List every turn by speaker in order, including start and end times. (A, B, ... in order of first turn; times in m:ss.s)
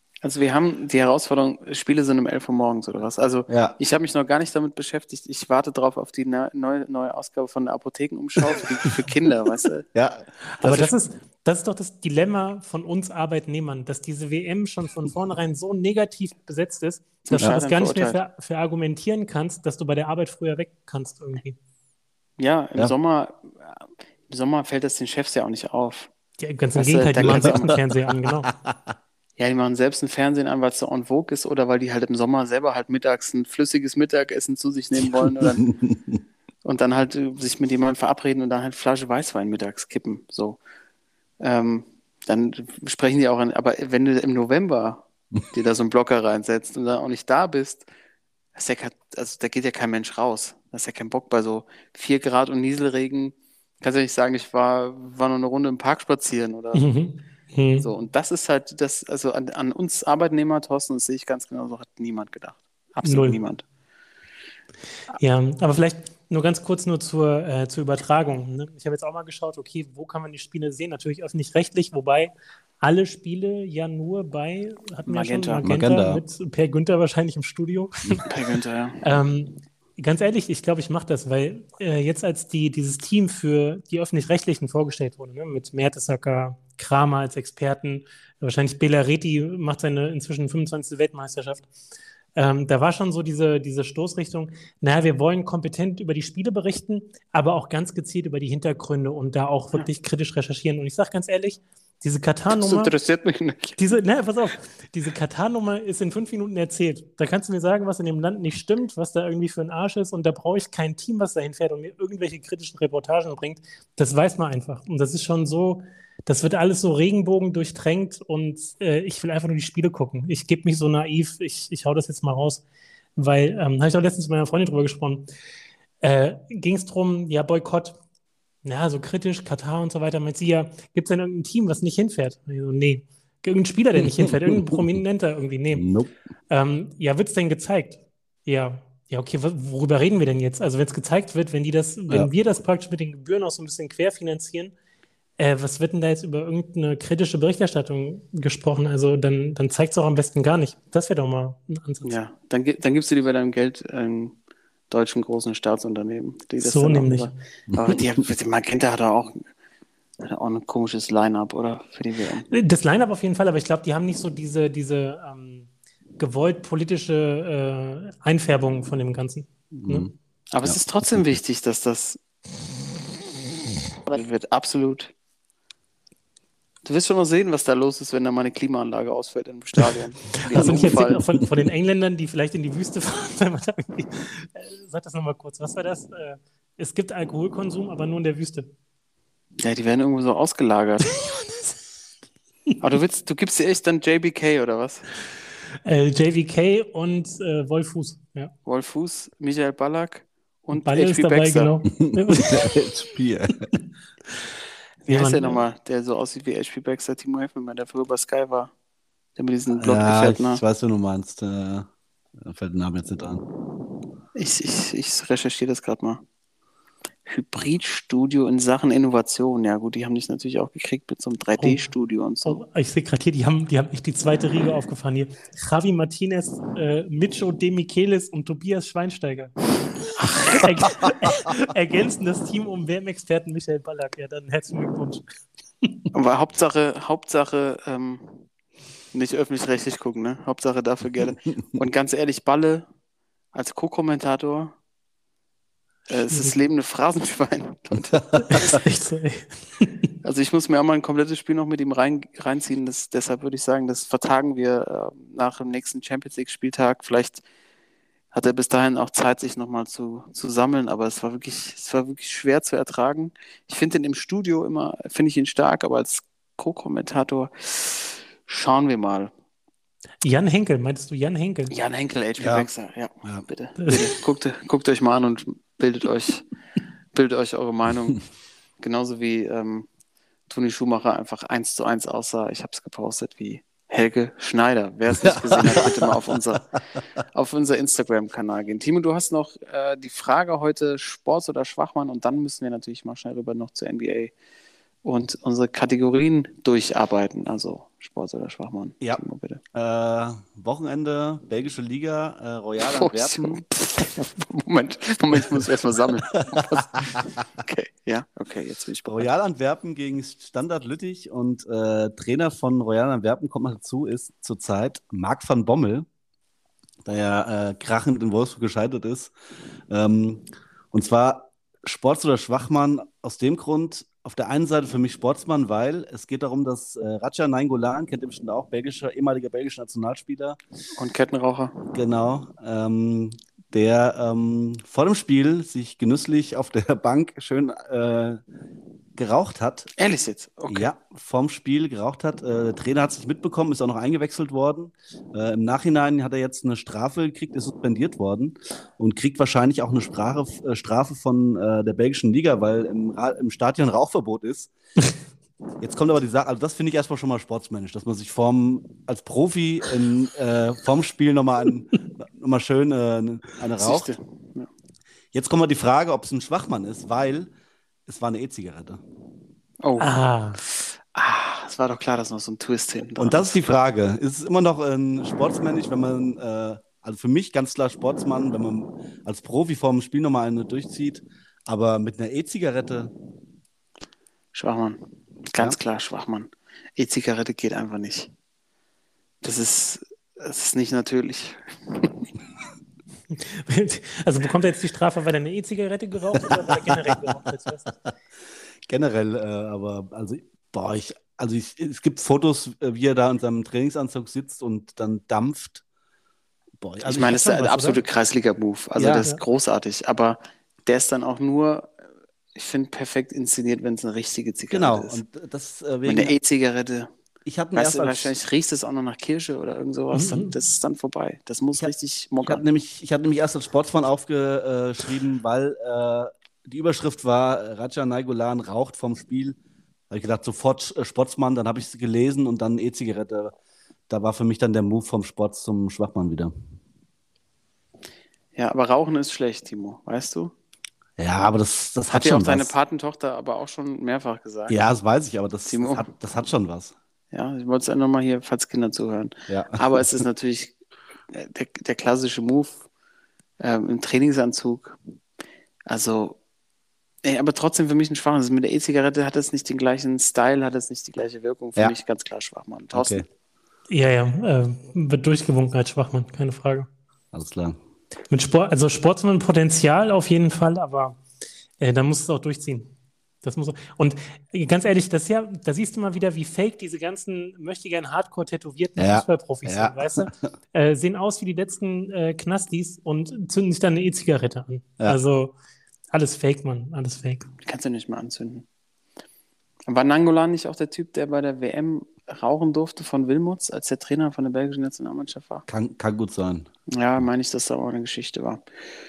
0:00.2-0:09.8 A
0:03.5-0:03.8 B
0:09.9-0:10.8 B
0:10.6-0:21.6 C
0:17.3-0:18.2 A
0:22.4-0:26.1 A
0:26.4-0:28.5 C
0:26.7-0:27.6 A
0:27.2-0:27.6 B
0:29.4-0:35.6 A
0:35.6-0:36.2 B
0:36.6-0:40.6 A
0:41.4-0:47.8 A
0:48.5-0:56.8 A
0:56.7-0:57.9 C
0:57.8-1:03.6 A
1:03.0-1:03.4 C
1:05.2-1:18.3 C
1:15.0-1:15.6 A
1:15.6-1:16.2 B
1:18.2-1:19.0 A
1:19.0-1:31.7 C
1:32.4-1:42.9 C
1:42.5-1:43.8 A
1:43.8-2:02.6 C
2:03.2-2:05.3 C
2:06.0-2:08.0 C
2:08.6-2:15.9 C
2:14.0-2:15.0 B
2:15.7-2:16.1 B
2:16.5-2:24.7 C
2:25.4-2:32.1 C
2:32.0-2:34.4 A
2:34.9-2:39.4 A
2:36.6-2:37.3 C
2:37.7-2:38.0 B
2:40.2-2:42.5 A
2:42.5-2:45.7 C
2:46.2-2:50.1 C
2:49.8-2:50.1 B
2:50.5-2:52.2 A
2:54.0-2:55.1 A
2:56.8-3:01.2 A
3:00.4-3:08.7 C
3:09.6-3:11.1 A
3:11.1-3:11.7 C
3:12.8-3:15.0 A
3:15.8-3:18.5 C
3:18.6-3:21.7 A
3:20.7-3:22.8 C
3:22.0-3:23.7 B
3:25.0-3:28.7 A
3:25.1-3:25.6 C
3:29.4-3:30.6 A
3:29.8-3:31.9 B
3:32.4-3:33.4 B
3:34.3-3:36.2 A
3:37.2-3:42.6 A
3:41.6-3:41.8 C
3:42.4-3:55.2 C
3:56.1-3:58.5 A
3:59.1-4:02.9 A
4:03.5-4:04.7 A
4:06.1-4:08.7 A
4:06.3-4:06.5 C
4:08.3-4:08.6 B
4:08.5-4:09.9 C
4:10.2-4:17.4 A
4:18.3-4:29.3 A
4:30.2-4:31.7 C
4:31.7-4:36.4 A
4:32.4-4:32.7 B
4:37.1-4:38.2 A
4:38.8-4:39.9 A
4:40.5-4:46.7 A
4:45.2-4:46.0 B
4:47.3-4:54.3 A
4:55.0-4:59.6 A
4:59.0-5:03.6 B
5:02.9-5:09.3 A
5:09.1-5:16.1 B
5:17.0-5:19.3 B
5:19.9-5:30.6 B
5:31.0-5:31.9 A
5:31.9-5:38.4 B
5:39.2-5:39.9 B
5:40.0-5:40.9 A
5:40.7-5:54.7 B
5:55.8-6:04.1 B
6:03.8-6:04.7 A
6:05.3-6:07.5 B
6:08.1-6:09.0 B
6:09.8-6:13.5 A
6:10.0-6:10.6 C
6:13.2-6:23.1 B
6:24.5-6:28.3 A
6:29.4-6:32.3 A
6:33.3-6:37.9 C
6:36.3-6:37.2 B
6:38.8-6:45.8 B
6:46.8-6:48.0 B
6:47.0-6:51.9 A
6:49.0-6:49.2 B
6:52.5-6:55.2 A
6:54.7-6:56.3 B
6:56.0-6:57.1 A
6:57.4-6:58.3 B
6:57.7-7:02.6 A
7:00.1-7:00.5 C
7:01.8-7:09.6 B
7:10.1-7:13.5 B
7:14.1-7:16.5 B
7:18.5-7:20.5 A
7:21.2-7:22.7 B
7:22.1-7:24.8 A
7:24.7-7:26.9 B
7:25.6-7:26.1 A
7:27.3-7:30.7 A
7:29.5-7:29.8 B
7:31.3-7:32.8 A
7:33.6-7:35.0 A
7:35.9-7:36.4 A
7:37.2-7:43.2 A
7:42.9-7:43.2 B
7:43.9-7:46.9 C
7:47.3-7:47.8 B
7:48.3-7:51.2 C
7:51.8-8:05.5 C
7:59.0-8:00.3 B
8:06.1-8:07.5 C
8:07.6-8:08.6 A
8:09.9-8:15.6 A
8:15.7-8:16.7 B
8:16.9-8:18.6 A